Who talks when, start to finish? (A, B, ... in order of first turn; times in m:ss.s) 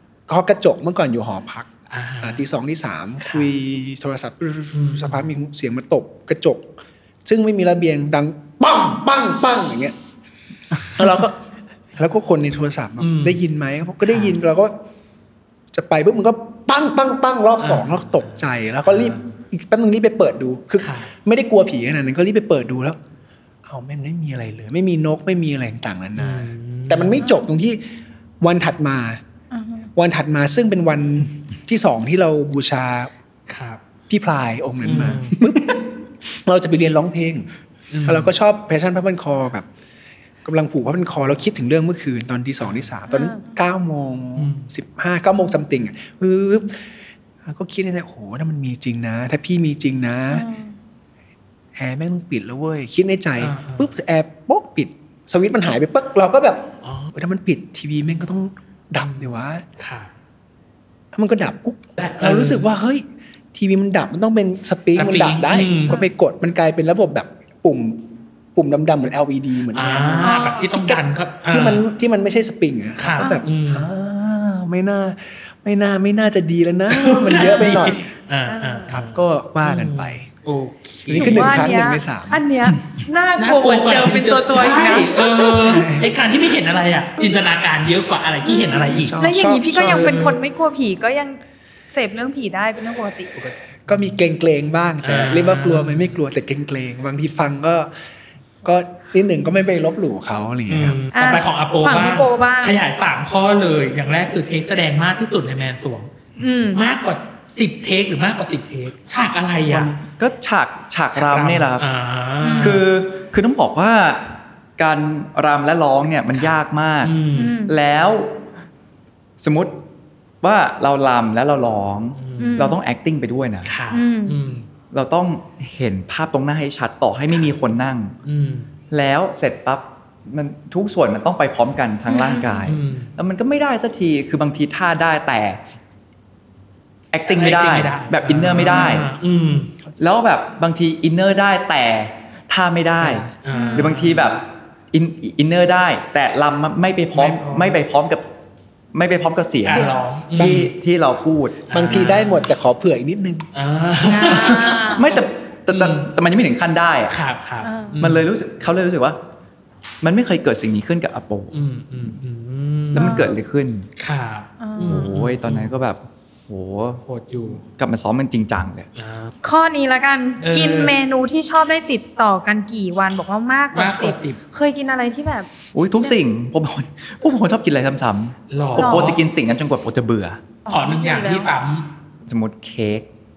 0:00.3-0:01.7 A
0:01.9-0:02.4 B
0:02.2-0:06.7 A
0:03.2-0:03.5 B
0:04.7-0:05.3 B
0:07.2-0:09.9 A
0:10.8-0:11.4 A
0:12.0-0:14.7 A
0:13.0-0:13.4 B
0:14.0-0:14.4 B
0:15.7-0:23.0 A
0:17.6-0:18.0 B
0:18.8-0:19.2 B
0:20.8-0:21.1 B
0:23.6-0:27.8 A
0:26.2-0:27.4 B
0:28.4-0:29.2 A
0:29.5-0:29.9 C
0:29.9-0:33.1 A
0:33.5-0:33.8 B
0:34.1-0:35.9 A
0:34.8-0:35.3 B
0:36.4-0:37.5 A
0:37.9-0:38.3 B
0:38.0-0:39.7 A
0:40.4-0:46.8 A
0:42.6-0:42.9 B
0:43.1-0:43.4 C
0:44.4-0:44.7 B
0:47.4-0:50.4 A
0:50.3-0:50.7 C
0:51.8-0:59.6 A
0:53.4-0:53.9 B
0:56.8-0:57.1 B
0:59.0-1:00.1 B
1:01.1-1:18.1 A
1:02.0-1:02.7 B
1:05.0-1:06.0 B
1:09.7-1:11.8 B
1:10.2-1:10.7 C
1:13.0-1:13.9 B
1:16.9-1:21.8 B
1:17.3-1:18.9 C
1:18.9-1:20.2 A
1:21.1-1:22.4 A
1:21.1-1:25.5 C
1:23.4-1:29.2 B
1:25.4-1:26.1 A
1:28.4-1:31.4 C
1:28.9-1:30.2 A
1:29.8-1:30.4 B
1:31.9-1:33.3 C
1:33.4-1:34.2 B
1:33.9-1:37.9 A
1:35.0-1:36.1 B
1:38.6-1:41.0 A
1:40.7-1:46.1 B
1:41.1-1:42.8 C
1:46.4-1:46.8 C
1:46.7-1:49.9 B
1:49.7-1:51.8 D
1:51.1-1:52.8 B
1:52.4-1:52.8 C
1:52.6-1:58.4 D
1:56.3-1:57.6 B
1:57.4-1:57.7 C
1:59.4-1:59.8 D
2:00.4-2:03.7 D
2:02.2-2:02.6 B
2:02.4-2:02.8 C
2:03.7-2:04.6 B
2:03.9-2:04.4 C
2:04.9-2:08.1 D
2:08.2-2:08.7 B
2:08.9-2:15.6 D
2:12.1-2:12.7 C
2:12.6-2:13.1 B
2:17.1-2:19.1 D
2:17.3-2:19.7 B
2:20.0-2:28.2 D
2:23.0-2:24.4 B
2:23.5-2:23.9 C
2:27.1-2:27.8 B
2:28.9-2:32.0 D
2:29.6-2:30.7 B
2:30.4-2:30.7 A
2:31.7-2:32.5 B
2:31.7-2:33.5 A
2:33.5-2:35.1 B
2:34.0-2:35.2 C
2:34.8-2:37.2 D
2:35.7-2:36.1 B
2:37.1-2:38.3 B
2:37.6-2:38.0 C
2:38.0-2:39.2 D
2:40.0-2:41.6 D
2:41.5-2:43.3 B
2:42.9-2:43.9 D
2:43.0-2:43.3 C
2:44.0-2:45.7 B
2:44.6-2:45.1 C
2:44.9-2:48.9 D
2:47.1-2:47.6 B
2:49.0-2:49.3 B
2:49.4-2:55.5 C
2:50.4-2:50.9 B
2:53.7-2:54.4 B
2:55.7-3:00.4 D
2:58.5-2:59.2 B
2:58.8-2:59.2 C
3:00.6-3:01.5 C
3:00.7-3:01.9 B
3:02.3-3:03.1 D